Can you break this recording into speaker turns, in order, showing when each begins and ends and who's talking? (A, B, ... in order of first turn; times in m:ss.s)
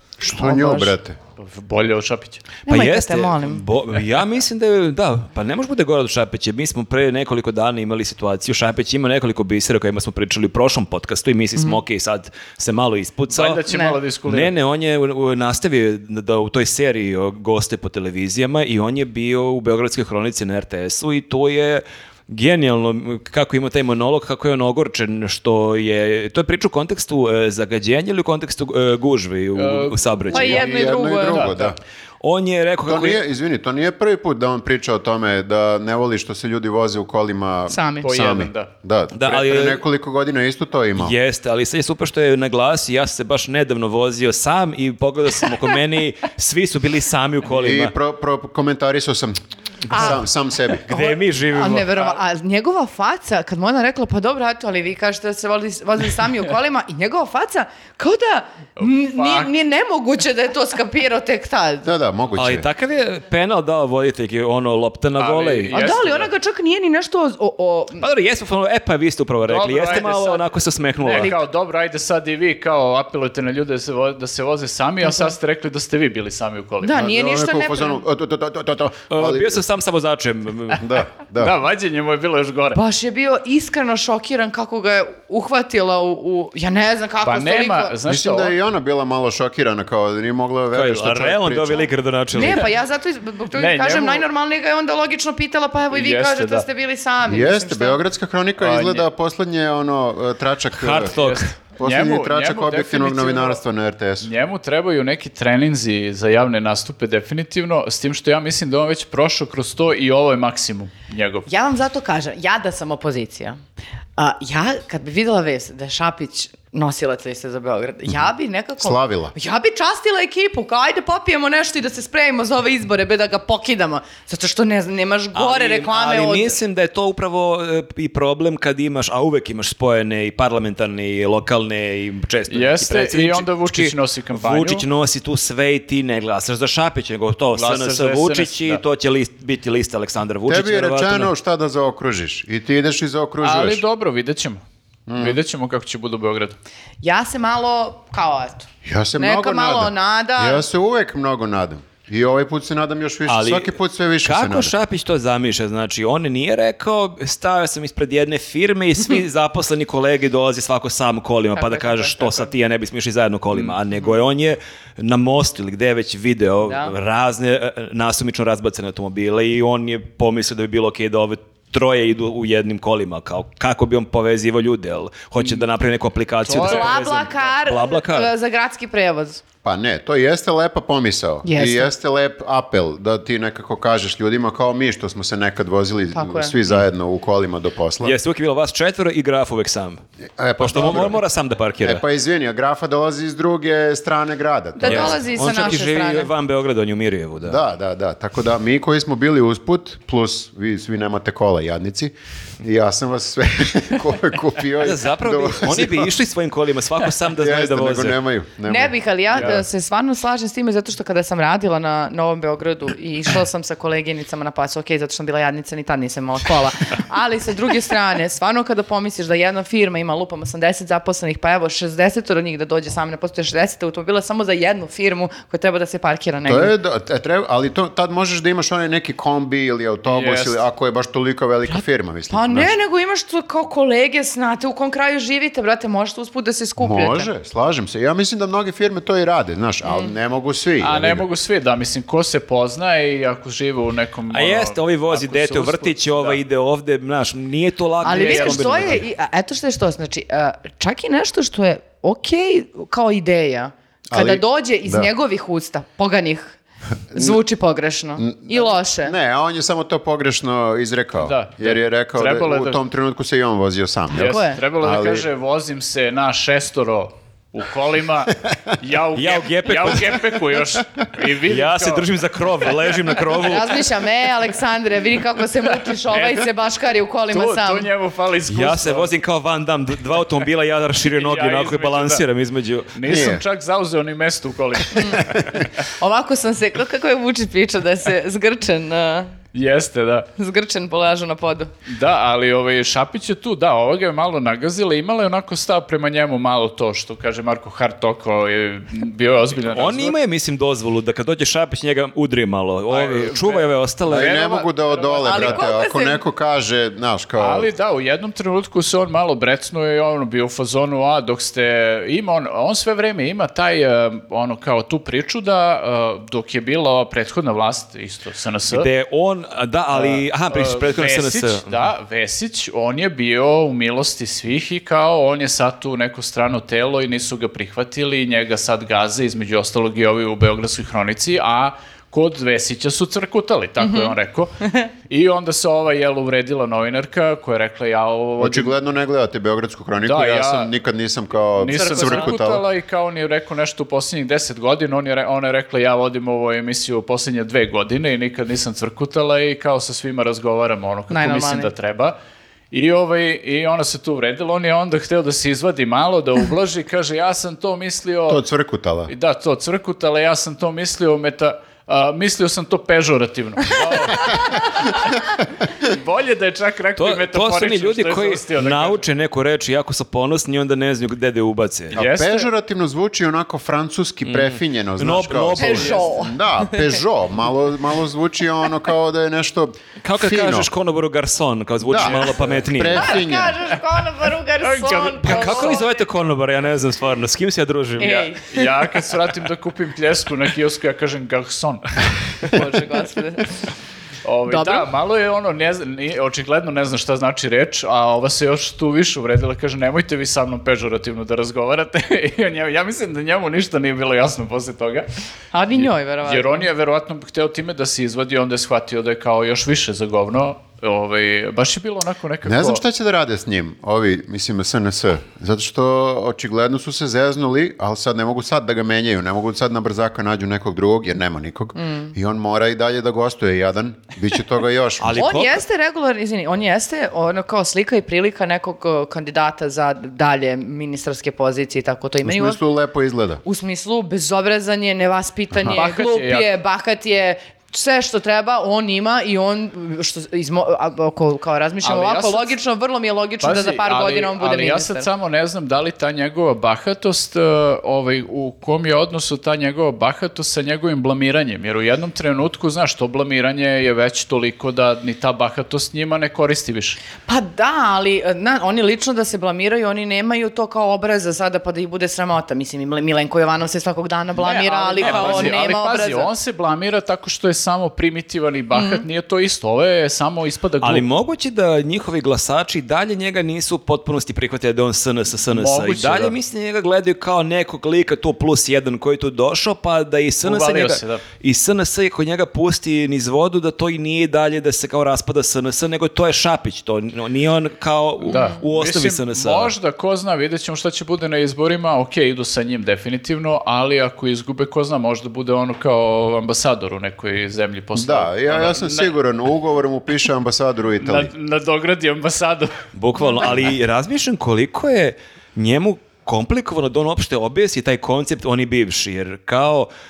0:00.2-0:01.2 A
0:00.3-0:00.9 B
0:01.4-0:02.5 C
0:02.7-0:03.6 B
0:02.7-0:13.6 D
0:13.3-0:14.5 C
0:13.7-0:14.0 B
0:14.3-0:30.7 D
0:29.6-0:31.7 C
0:30.3-0:31.5 B
0:30.4-0:31.8 A
0:32.2-0:33.2 D
0:32.9-0:41.2 A
0:37.7-0:38.1 B
0:38.0-0:38.7 C
0:39.1-0:39.8 D
0:41.0-0:47.9 D
0:47.5-0:49.4 A
0:49.9-0:50.8 A
0:49.9-0:50.2 D
0:50.8-0:51.9 D
0:50.9-1:01.9 B
0:58.8-0:59.5 C
1:01.8-1:02.7 A
1:02.4-1:05.9 D
1:05.2-1:06.3 C
1:05.7-1:08.1 B
1:08.0-1:11.4 D
1:09.4-1:17.0 C
1:15.0-1:15.4 B
1:16.8-1:18.0 B
1:16.9-1:19.6 A
1:19.1-1:20.9 D
1:20.8-1:21.6 A
1:21.4-1:22.8 C
1:22.7-1:28.0 B
1:27.2-1:28.6 C
1:28.0-1:31.9 A
1:30.7-1:32.7 D
1:32.3-1:38.0 B
1:33.5-1:34.2 C
1:35.9-1:36.7 C
1:37.3-1:41.2 A
1:38.6-1:39.1 C
1:40.8-1:41.5 D
1:41.2-1:43.6 C
1:41.8-1:44.3 A
1:44.2-1:51.5 C
1:51.5-1:53.6 B
1:54.2-2:06.6 B
1:58.8-1:59.3 A
2:05.4-2:21.3 D
2:12.5-2:14.9 C
2:17.5-2:18.8 C
2:20.5-2:23.8 A
2:23.4-2:24.6 C
2:25.1-2:25.4 A
2:25.2-2:26.6 C
2:27.0-2:30.6 B
2:28.8-2:34.7 A
2:33.3-2:33.7 D
2:34.2-2:58.3 D
2:41.6-2:42.5 B
2:46.6-2:46.9 B
2:55.4-2:55.6 C
2:56.4-2:57.4 C
2:56.6-2:59.4 B
2:59.6-3:08.2 A
3:01.4-3:01.9 B
3:06.1-3:06.5 B
3:08.0-3:10.0 D
3:10.4-3:11.2 A
3:10.6-3:12.0 D
3:11.8-3:15.2 A
3:14.8-3:16.3 B
3:14.8-3:17.6 D
3:17.4-3:26.1 A
3:24.8-3:28.2 D
3:27.3-3:29.6 A
3:28.6-3:46.7 B
3:29.3-3:29.6 C
3:46.5-3:52.7 A
3:50.1-3:50.6 C
3:51.7-3:57.3 B
3:56.8-4:01.3 A
3:59.8-4:00.1 B
4:00.8-4:06.4 C
4:04.3-4:09.0 D
4:08.0-4:16.6 B
4:08.1-4:08.7 C
4:14.1-4:15.1 A
4:17.1-4:17.4 A
4:17.1-4:19.2 B
4:18.2-4:25.3 A
4:21.2-4:22.8 C
4:24.1-4:32.1 C
4:24.1-4:24.6 B
4:29.2-4:30.4 D
4:31.5-4:33.8 D
4:33.3-4:37.9 B
4:36.1-4:36.4 C
4:37.3-4:39.1 C
4:38.5-4:43.2 D
4:41.0-4:42.2 C
4:43.0-4:45.6 C
4:43.1-4:43.4 A
4:45.0-4:45.2 B
4:45.2-4:45.6 A
4:46.0-4:49.3 B
4:49.5-4:50.3 C
4:50.4-4:51.7 B
4:51.9-5:00.2 C
4:59.7-5:04.4 D
5:02.9-5:05.6 C
5:04.1-5:07.7 A
5:05.2-5:06.2 B
5:07.4-5:18.9 C
5:18.7-5:21.7 D
5:19.9-5:38.7 C
5:33.8-5:34.2 B
5:38.4-5:42.7 A
5:40.0-5:40.7 C
5:41.6-5:52.2 C
5:41.7-5:42.3 B
5:51.1-5:51.7 B
5:52.7-5:58.4 C
5:58.3-5:59.1 A
5:59.1-6:05.2 C
6:05.8-6:09.1 C
6:07.0-6:12.0 D
6:11.9-6:20.7 A
6:12.0-6:12.5 C
6:14.3-6:16.0 D
6:15.6-6:16.9 B
6:20.0-6:23.2 D
6:21.8-6:23.6 A
6:22.0-6:22.6 C
6:23.0-6:25.9 B
6:24.6-6:25.8 C
6:25.2-6:28.3 D
6:28.0-6:28.7 B
6:28.4-6:31.8 C
6:32.4-6:33.5 B
6:34.2-6:45.1 C
6:34.5-6:34.9 B
6:45.5-6:46.7 B
6:45.8-6:52.8 C
6:52.4-7:05.2 A
7:01.8-7:02.1 B
7:05.0-7:05.6 D
7:05.1-7:12.6 B
7:12.2-7:13.4 A
7:13.4-7:25.1 B
7:15.7-7:16.5 C
7:21.8-7:22.6 C
7:23.4-7:37.0 C
7:37.3-7:46.3 B
7:44.4-7:51.1 C
7:45.0-7:45.5 D
7:48.7-7:49.0 B
7:50.8-8:09.7 D
7:55.5-7:56.4 C
8:00.4-8:01.2 C
8:08.3-8:19.1 C
8:18.0-8:21.3 A
8:21.0-8:22.7 C
8:22.9-8:29.9 D